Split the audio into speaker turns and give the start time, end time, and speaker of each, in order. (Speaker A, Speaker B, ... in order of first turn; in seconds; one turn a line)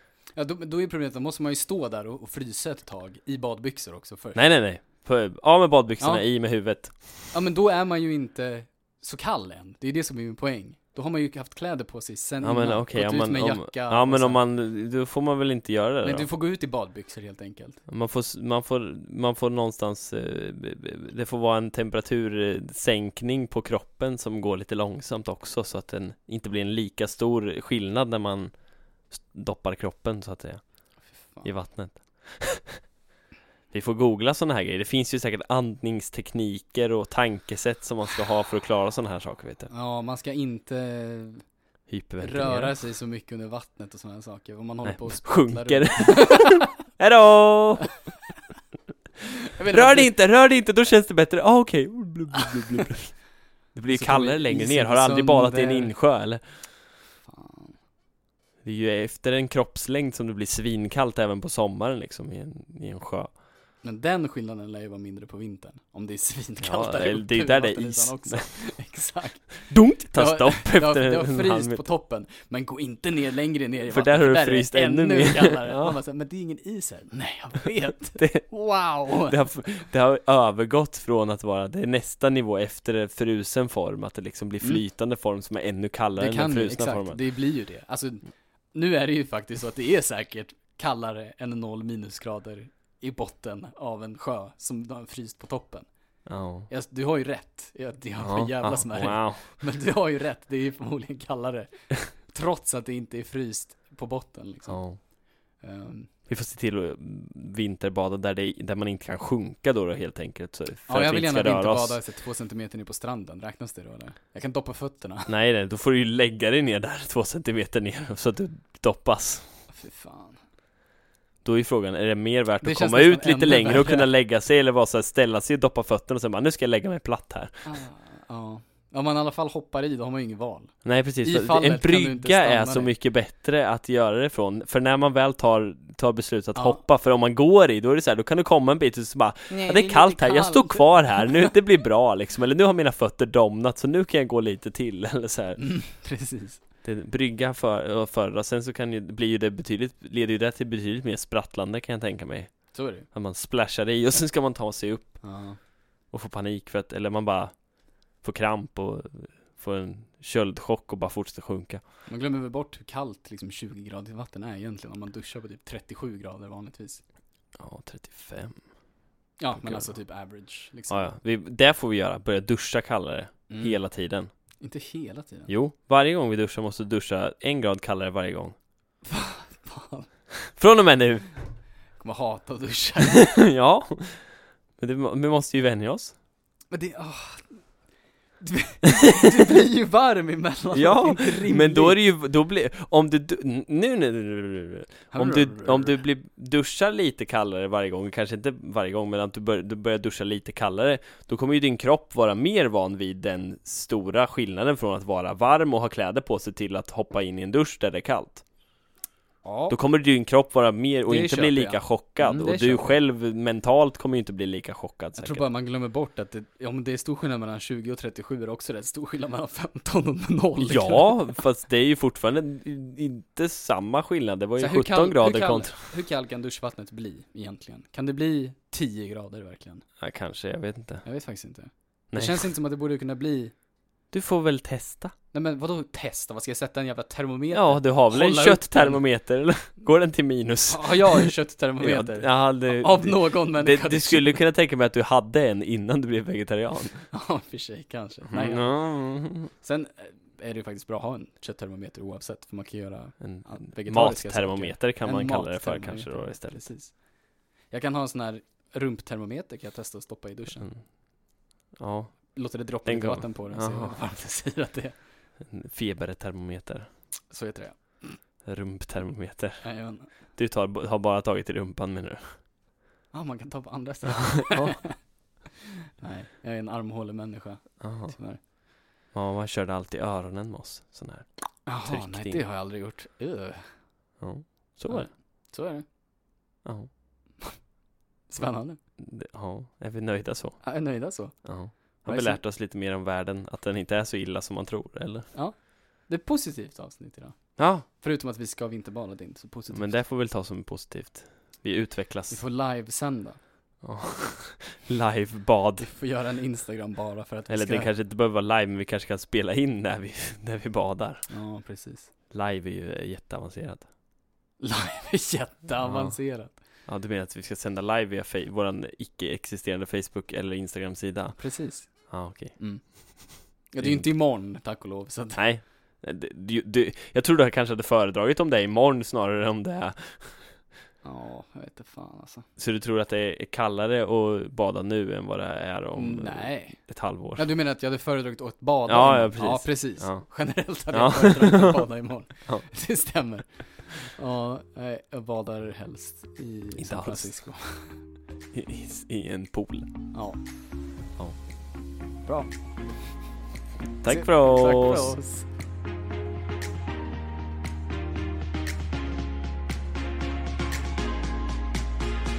Speaker A: 0.3-4.4
Speaker B: 4.3-7.3
Speaker A: 6.0-6.3
Speaker A: 7.3-14.4
Speaker B: 12.4-16.3
Speaker A: 16.0-17.8
Speaker B: 17.9-28.5
Speaker B: 29.1-30.6
Speaker A: 31.1-31.5
Speaker B: 31.4-32.8
Speaker B: 33.7-39.7
Speaker A: 39.7-41.4
Speaker B: 41.9-42.8
Speaker A: 42.2-46.6
Speaker B: 44.8-47.9
Speaker A: 49.3-50.1
Speaker B: 49.7-56.4
Speaker A: 53.9-55.9
Speaker A: 57.2-57.8
Speaker B: 58.6-63.3
Speaker A: 63.8-79.6
Speaker B: 66.6-68.5
Speaker B: 69.7-71.8
Speaker B: 73.9-76.0
Speaker B: 78.2-78.5
Speaker B: 79.1-87.2
Speaker A: 86.2-95.9
Speaker B: 96.2-96.7
Speaker A: 96.7-104.8
Speaker B: 98.2-99.6
Speaker B: 104.7-105.0
Speaker A: 105.6-106.1
Speaker B: 106.3-112.0
Speaker A: 110.9-115.3
Speaker B: 115.3-119.5
Speaker A: 119.7-120.4
Speaker B: 121.4-127.8
Speaker A: 122.6-124.1
Speaker A: 127.7-132.9
Speaker B: 130.8-145.8
Speaker A: 136.6-136.8
Speaker A: 139.5-141.5
Speaker A: 145.6-146.6
Speaker B: 146.8-155.2
Speaker A: 152.7-153.1
Speaker A: 155.2-155.6
Speaker B: 156.1-157.5
Speaker B: 158.2-161.8
Speaker A: 162.1-167.0
Speaker B: 167.6-168.6
Speaker A: 169.4-171.1
Speaker B: 169.6-169.9
Speaker B: 170.9-174.3
Speaker A: 173.5-173.8
Speaker A: 174.6-175.5
Speaker B: 175.5-178.5
Speaker A: 179.1-180.1
Speaker B: 180.5-181.3
Speaker A: 182.0-183.5
Speaker B: 183.1-186.1
Speaker A: 186.7-187.6
Speaker A: 188.4-192.0
Speaker B: 189.2-189.5
Speaker B: 190.7-208.4
Speaker A: 195.1-196.0
Speaker A: 209.4-209.8
Speaker B: 209.7-215.4
Speaker A: 211.1-212.9
Speaker A: 215.2-221.2
Speaker B: 220.6-225.9
Speaker A: 224.6-229.8
Speaker B: 230.0-231.0
Speaker A: 231.0-233.5
Speaker B: 232.1-232.5
Speaker B: 234.1-235.1
Speaker A: 235.3-239.0
Speaker B: 237.5-247.1
Speaker A: 240.7-244.4
Speaker A: 247.1-248.8
Speaker B: 248.3-249.5
Speaker A: 249.5-256.9
Speaker B: 253.2-256.6
Speaker A: 257.7-260.7
Speaker B: 261.8-264.0
Speaker A: 262.3-264.9
Speaker B: 265.4-266.9
Speaker A: 267.3-268.2
Speaker B: 268.4-272.4
Speaker A: 269.6-270.1
Speaker A: 273.1-274.9
Speaker B: 274.4-274.7
Speaker A: 276.0-278.4
Speaker B: 277.8-278.1
Speaker B: 279.1-282.4
Speaker A: 281.6-283.8
Speaker B: 284.2-285.1
Speaker A: 284.9-285.8
Speaker B: 286.6-286.9
Speaker A: 288.3-288.8
Speaker B: 289.0-290.7
Speaker A: 290.6-292.4
Speaker B: 291.3-295.3
Speaker A: 295.3-300.0
Speaker B: 297.6-297.9
Speaker B: 299.7-302.4
Speaker A: 302.3-303.4
Speaker B: 303.8-305.9
Speaker A: 305.8-307.9
Speaker B: 307.5-311.3
Speaker A: 311.3-312.1
Speaker B: 312.3-313.9
Speaker A: 314.6-316.6
Speaker B: 315.8-316.1
Speaker B: 316.9-322.9
Speaker A: 321.4-325.4
Speaker B: 323.8-324.1
Speaker B: 325.3-330.6
Speaker A: 331.0-332.4
Speaker B: 332.6-337.5
Speaker A: 335.9-336.8
Speaker A: 337.3-348.0
Speaker B: 338.9-340.2
Speaker B: 340.9-341.9
Speaker B: 346.8-347.4
Speaker B: 348.5-349.9
Speaker A: 350.1-350.4
Speaker B: 354.0-355.2
Speaker A: 354.0-355.4